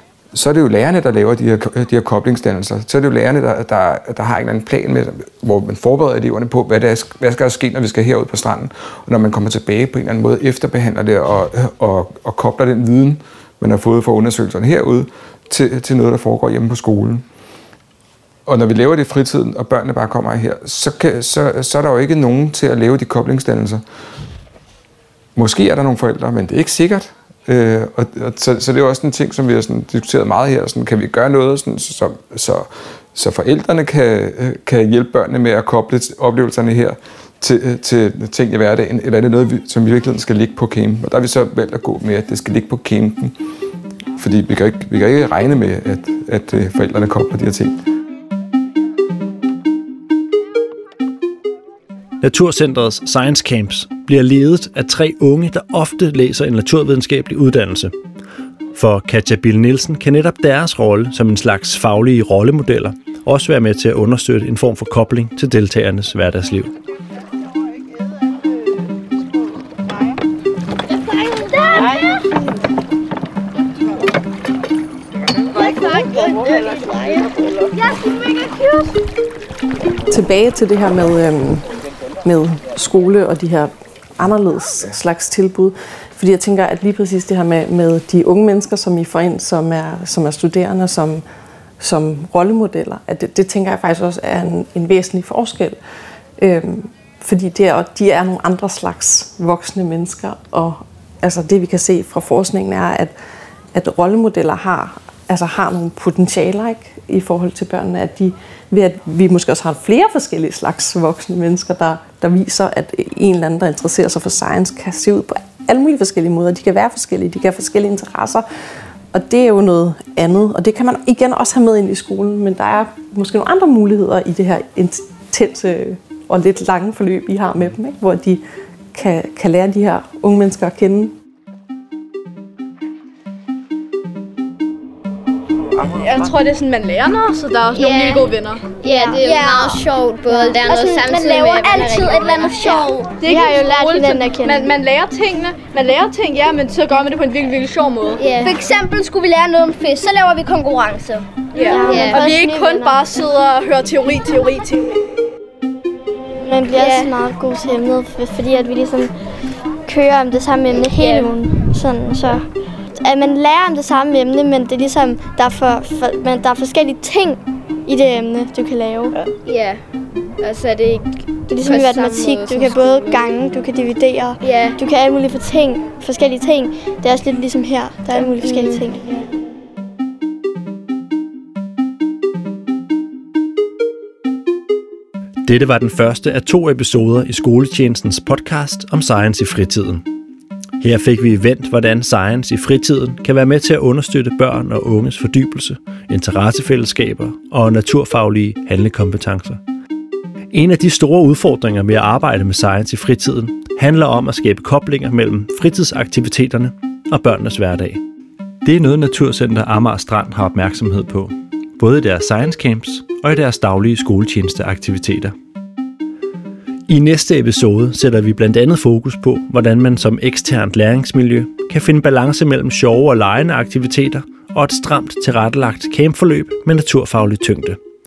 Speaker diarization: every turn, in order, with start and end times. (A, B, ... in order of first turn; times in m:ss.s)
0:00.3-0:17.2 A
0:18.4-0:23.8 A
0:25.4-0:43.4 A
0:44.2-0:47.8 A
0:52.2-0:57.9 B
0:58.7-1:06.7 B
1:11.0-1:12.2 C
1:15.6-1:16.8 C
1:17.7-1:18.9 C
1:20.1-1:21.6 D
1:22.2-1:31.2 D
1:31.8-1:35.8 D
1:36.4-1:43.1 D
1:43.7-1:58.4 D
1:59.1-2:08.4 D
2:08.9-2:11.1 D
2:15.8-2:19.6 E
2:17.7-2:23.7 C
2:19.0-2:19.4 F
2:20.2-2:20.9 F
2:23.1-2:28.4 E
2:23.3-2:24.7 F
2:28.2-2:32.2 C
2:31.5-2:34.9 E
2:31.6-2:33.0 F
2:36.4-2:39.1 F
2:36.7-2:37.1 C
2:39.8-2:49.2 F
2:40.7-2:41.3 C
2:49.4-2:49.8 C
2:50.4-2:53.2 C
2:51.5-2:59.1 F
2:54.4-2:54.8 C
2:58.1-2:59.2 C
3:05.4-3:10.0 B
3:10.8-3:19.6 B
3:20.5-3:28.0 B
3:28.6-3:35.3 B
3:36.9-3:47.8 B